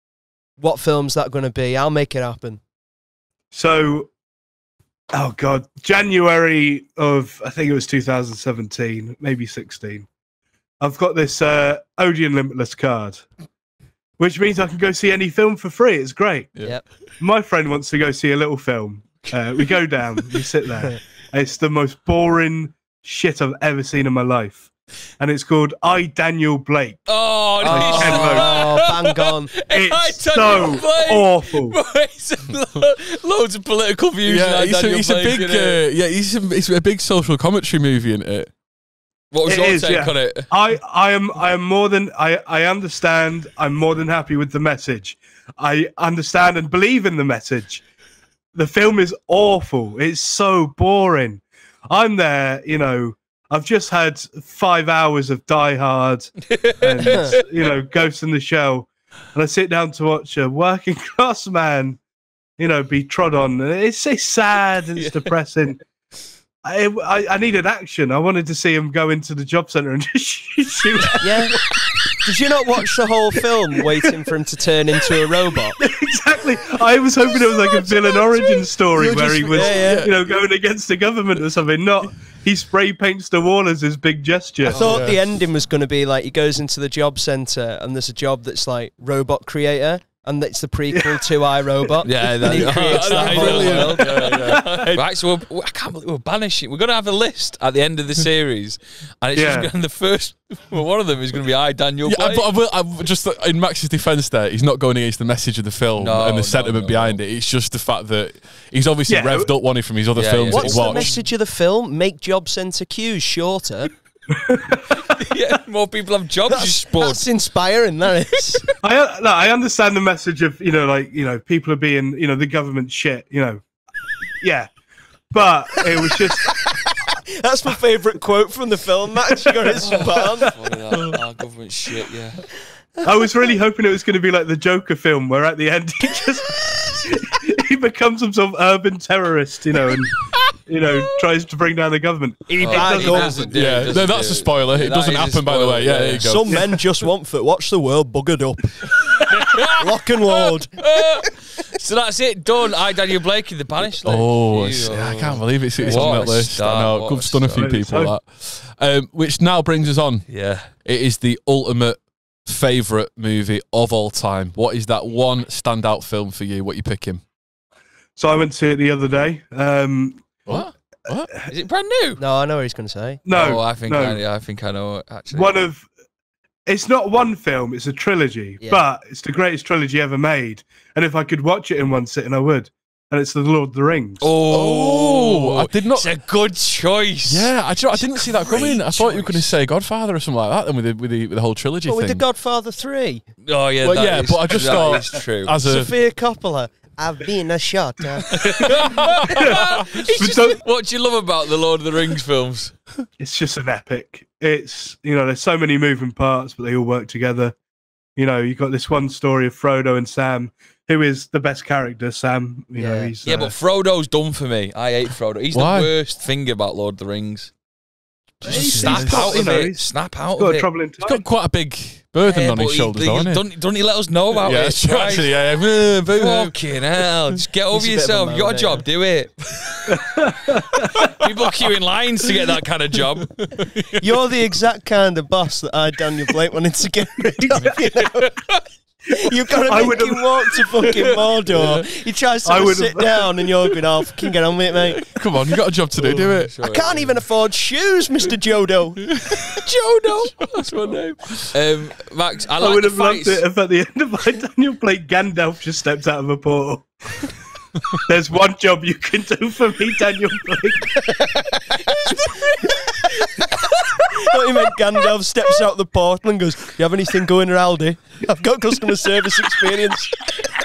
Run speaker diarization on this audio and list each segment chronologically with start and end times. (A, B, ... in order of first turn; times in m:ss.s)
0:00.6-0:02.6 A
0:03.5-0:04.1 B
0:05.1-0:10.1 B
0:10.8-0:13.3 B
0:14.2-0:16.6 B
0:17.2-0:28.6 B
0:27.1-0:35.8 C
0:27.6-0:29.5 A
0:29.7-0:31.8 B
0:34.2-0:38.5 D
0:39.3-0:40.5 C
0:39.4-0:47.8 B
0:48.6-1:02.0 B
0:56.5-0:57.4 C
1:02.6-1:05.8 B
1:05.0-1:05.3 C
1:06.6-1:11.5 B
1:11.2-1:11.6 A
1:12.2-1:15.8 A
1:15.8-1:24.9 B
1:19.0-1:20.1 A
1:19.5-1:20.2 D
1:24.7-1:34.0 A
1:24.8-1:25.2 D
1:30.9-1:31.2 B
1:32.0-1:42.5 C
1:32.4-1:35.0 D
1:33.7-1:34.9 B
1:39.4-1:39.7 B
1:42.0-1:51.1 D
1:46.0-1:47.2 C
1:49.1-1:49.5 B
1:50.1-1:51.2 C
1:50.5-1:53.9 A
1:54.4-1:54.8 B
1:55.0-1:57.2 C
1:56.5-1:58.6 A
1:58.8-2:03.6 B
2:04.4-2:04.7 B
2:05.3-2:06.5 B
2:06.4-2:10.6 A
2:09.9-2:12.4 C
2:13.0-2:23.5 B
2:22.5-2:23.6 A
2:22.6-2:26.7 C
2:23.5-2:26.6 D
2:26.3-2:28.9 A
2:29.3-2:37.7 C
2:29.7-2:30.7 A
2:34.0-2:47.2 D
2:35.9-2:36.2 A
2:37.6-2:38.2 B
2:40.3-2:40.7 C
2:48.2-2:50.4 B
2:50.5-2:51.3 D
2:51.5-2:52.2 C
2:52.2-2:53.2 A
2:53.2-2:54.2 B
2:53.3-2:55.5 C
2:55.3-2:55.9 B
2:56.7-3:04.3 B
3:04.2-3:09.5 C
3:04.5-3:06.1 D
3:07.3-3:12.2 D
3:11.8-3:13.2 A
3:13.4-3:15.6 C
3:13.8-3:16.0 D
3:15.6-3:18.3 A
3:18.4-3:18.8 B
3:18.4-3:22.8 C
3:20.2-3:20.6 B
3:23.2-3:27.6 B
3:28.2-3:33.6 B
3:32.8-3:33.1 A
3:33.2-3:37.5 C
3:35.5-3:36.0 D
3:38.4-3:41.2 B
3:38.4-3:39.0 A
3:38.5-3:39.3 D
3:38.5-3:40.7 C
3:41.0-3:43.5 D
3:42.2-3:45.5 C
3:44.3-3:46.8 D
3:46.1-3:50.0 C
3:47.7-3:48.8 A
3:49.9-3:50.9 B
3:51.0-3:53.5 C
3:53.4-3:54.0 D
3:54.0-3:58.3 A
3:57.2-3:57.8 B
3:57.6-3:58.5 C
3:59.1-4:05.0 A
3:59.7-4:00.2 B
4:02.4-4:03.5 B
4:05.1-4:06.5 D
4:06.0-4:07.2 C
4:06.6-4:09.1 A
4:09.5-4:13.4 C
4:11.3-4:11.6 D
4:12.6-4:16.9 B
4:18.0-4:21.0 B
4:21.1-4:22.1 A
4:22.0-4:23.6 C
4:24.2-4:30.2 A